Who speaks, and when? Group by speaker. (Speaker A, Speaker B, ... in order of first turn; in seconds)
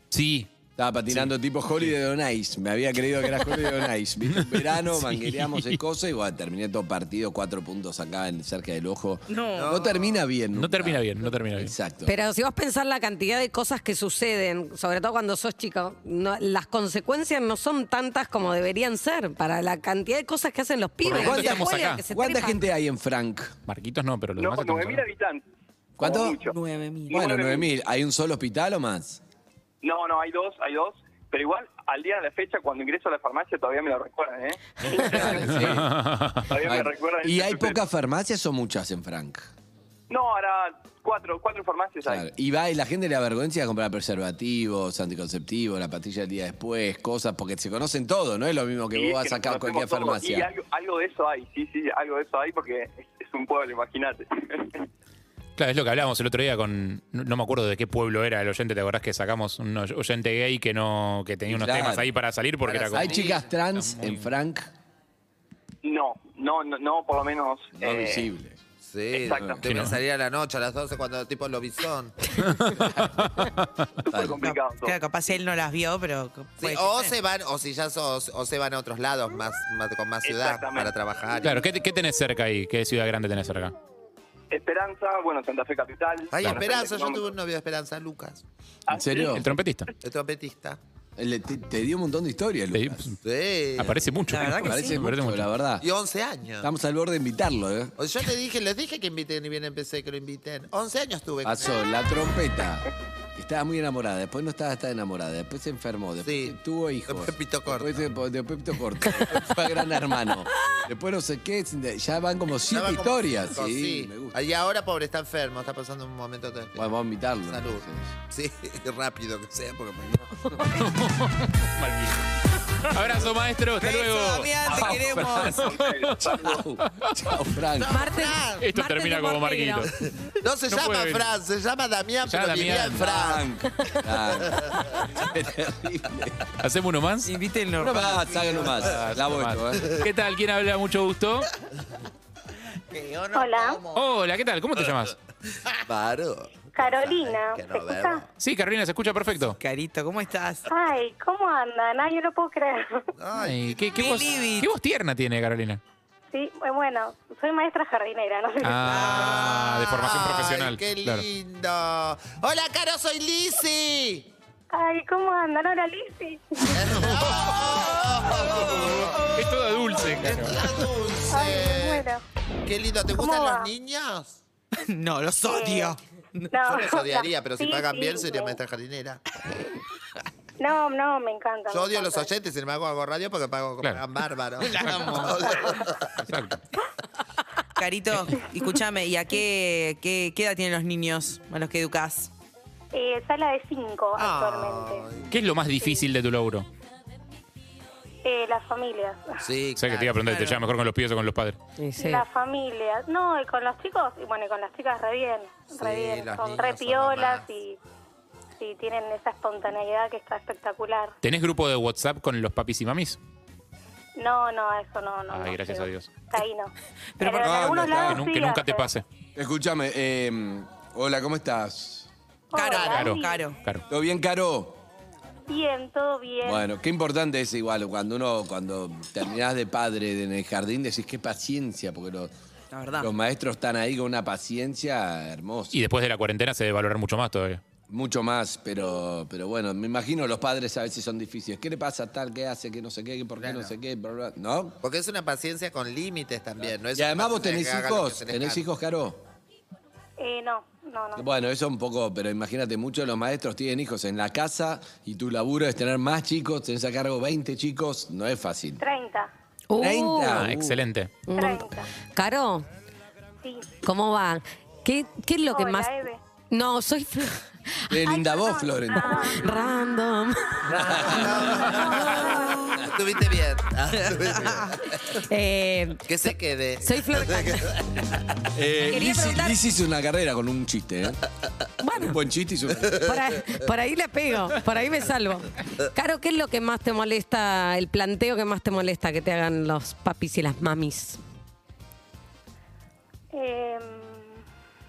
Speaker A: 0.1-0.5, 4.3-5.8, 10.5-11.7, 21.0-22.0, 23.7-25.1, 35.5-36.5, 55.6-64.2, 69.7-70.0, 72.4-73.8, 81.4-83.7, 89.2-89.9, 92.7-93.2, 93.8-95.5, 120.8-127.2, 128.6-129.9, 130.7-131.3, 132.2-133.1, 136.6-137.3, 138.8-141.5, 143.9-145.2, 148.4-149.6, 153.4-155.8, 158.6-161.3, 169.3-170.7, 186.3-186.6, 195.3-196.7, 199.8-201.6, 211.2-213.2, 215.3-216.1, 218.0-219.0, 222.8-223.8, 235.7-237.6, 260.2-261.1
Speaker B: 0.8-12.1, 21.1-23.5, 26.0-26.4, 27.1-29.2, 34.9-36.0, 36.5-39.5, 42.0-50.5, 61.5-62.1, 62.9-64.7, 67.8-68.6, 69.3-69.6, 74.1-74.4, 88.9-89.5, 91.2-93.1, 94.4-95.9, 96.6-98.0, 101.4-114.4, 116.8-118.1, 126.2-128.1, 132.8-136.5, 137.8-140.0, 217.3-218.3, 219.4-222.1, 223.9-224.8, 226.4-232.3, 233.0-235.8, 237.9-244.8, 246.9-249.2, 251.2-258.8, 259.8-260.9, 267.9-269.2, 270.8-271.6, 278.5-281.2, 281.9-283.1
Speaker C: 9.3-9.8, 26.4-27.4, 74.4-77.2, 94.3-95.0, 123.8-125.7, 137.2-138.8, 149.6-150.7, 154.0-154.7, 158.8-159.7, 174.8-176.5, 184.6-185.7, 187.8-192.3, 200.3-200.6, 217.2-217.7, 222.5-223.6, 232.7-233.1, 274.1-274.8
Speaker D: 9.6-10.2, 62.7-63.5, 68.8-72.4, 76.6-81.6, 86.3-88.4, 90.0-90.8, 93.2-94.1, 95.8-96.7, 98.0-101.8, 106.2-106.5, 107.1-108.0, 112.7-120.7, 127.8-128.6, 130.3-133.5, 134.4-135.0, 142.9-143.7, 145.7-148.2, 153.2-154.2, 159.2-164.3, 166.7-169.3, 170.2-172.1, 172.7-174.4, 176.7-179.2, 181.7-186.2, 194.2-195.3, 199.4-200.2, 205.7-207.4, 243.4-243.7, 244.8-248.6, 270.7-275.2, 276.1-278.1, 282.8-283.6
Speaker E: 12.1-22.6, 127.9-129.9, 201.8-202.2, 259.7-260.5, 261.3-262.6, 263.7-268.0, 268.9-270.9, 275.2-277.8, 278.9-279.6, 281.8-282.2, 283.0-291.2
Speaker F: 24.4-25.4, 26.0-26.6, 27.1-27.7, 29.8-35.8, 36.5-37.8, 40.1-42.3, 48.9-54.9, 65.8-68.3, 69.1-69.6, 74.0-75.0, 80.2-81.0, 84.5-87.3, 88.9-89.4, 124.7-126.8
Speaker G: 143.3-143.8, 146.8-148.2, 150.7-153.1, 156.3-159.1, 164.7-166.8, 171.3-172.2, 173.2-173.7, 175.5-176.0, 176.5-178.6, 180.6-182.3, 192.9-195.1, 198.2-199.4, 202.0-207.8, 208.6-211.2, 214.2-218.9, 222.5-223.5, 225.5-226.7, 250.2-251.3, 258.8-259.3, 261.3-261.9, 263.4-263.8, 265.5-266.2, 268.0-269.7, 272.0-272.5, 293.3-294.4